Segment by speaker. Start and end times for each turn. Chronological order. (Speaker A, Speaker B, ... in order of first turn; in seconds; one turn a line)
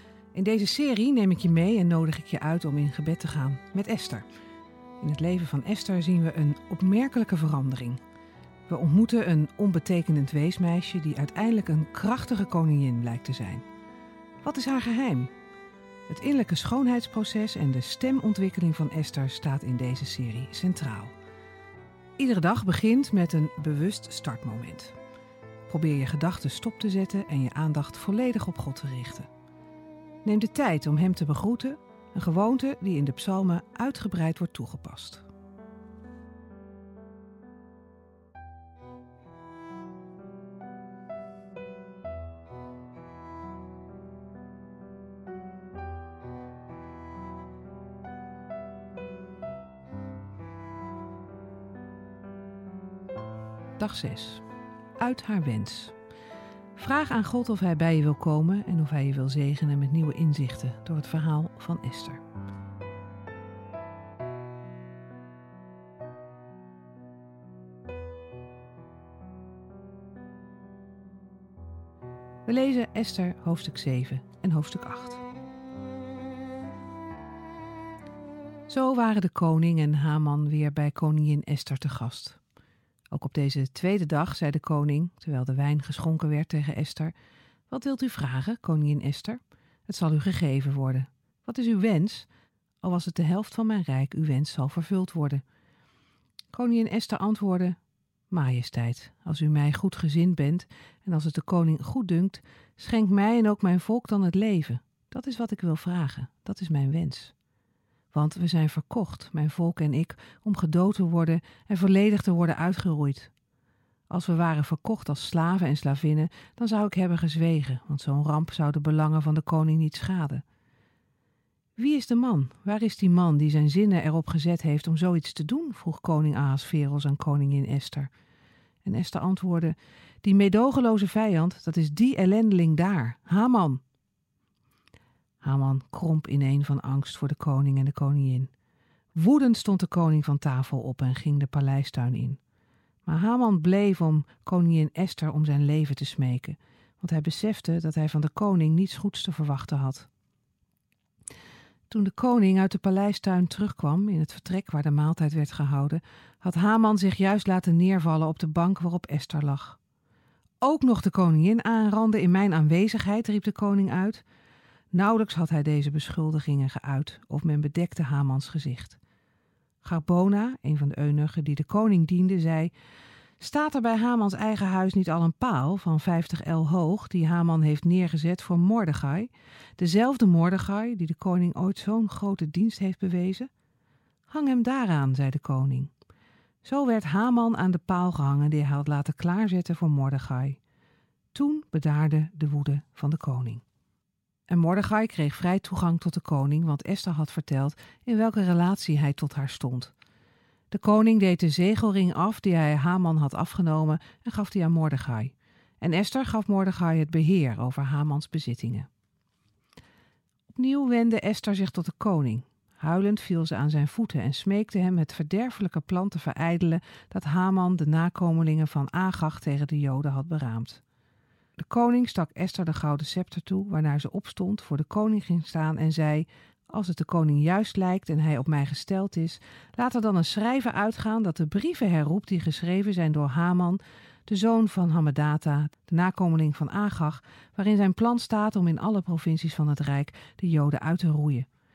Speaker A: 0.3-4.2
Speaker A: 5.0-8.0
Speaker A: 8.7-13.6
Speaker A: 14.4-15.3
Speaker A: 16.1-21.1
Speaker A: 22.2-24.9
Speaker A: 25.7-29.3
Speaker A: 30.2-35.3
Speaker A: 53.8-54.4
Speaker A: 55.0-55.9
Speaker A: 56.8-62.2
Speaker A: 72.5-75.2
Speaker A: 78.7-82.4
Speaker A: 83.1-87.1
Speaker A: 87.7-92.3
Speaker A: 92.8-95.4
Speaker A: 96.5-97.8
Speaker A: 98.3-107.3
Speaker A: 108.1-113.3
Speaker A: 114.1-120.4
Speaker A: 121.8-128.1
Speaker A: 128.8-133.8
Speaker A: 135.4-138.5
Speaker A: 139.1-142.4
Speaker A: 143.1-150.1
Speaker A: 151.9-159.8
Speaker A: 160.6-164.2
Speaker A: 164.9-169.0
Speaker A: 169.8-172.7
Speaker A: 173.4-183.5
Speaker A: 184.3-185.9
Speaker A: 186.6-190.6
Speaker A: 191.3-193.6
Speaker A: 194.5-199.9
Speaker A: 200.7-208.9
Speaker A: 210.5-220.8
Speaker A: 221.6-241.5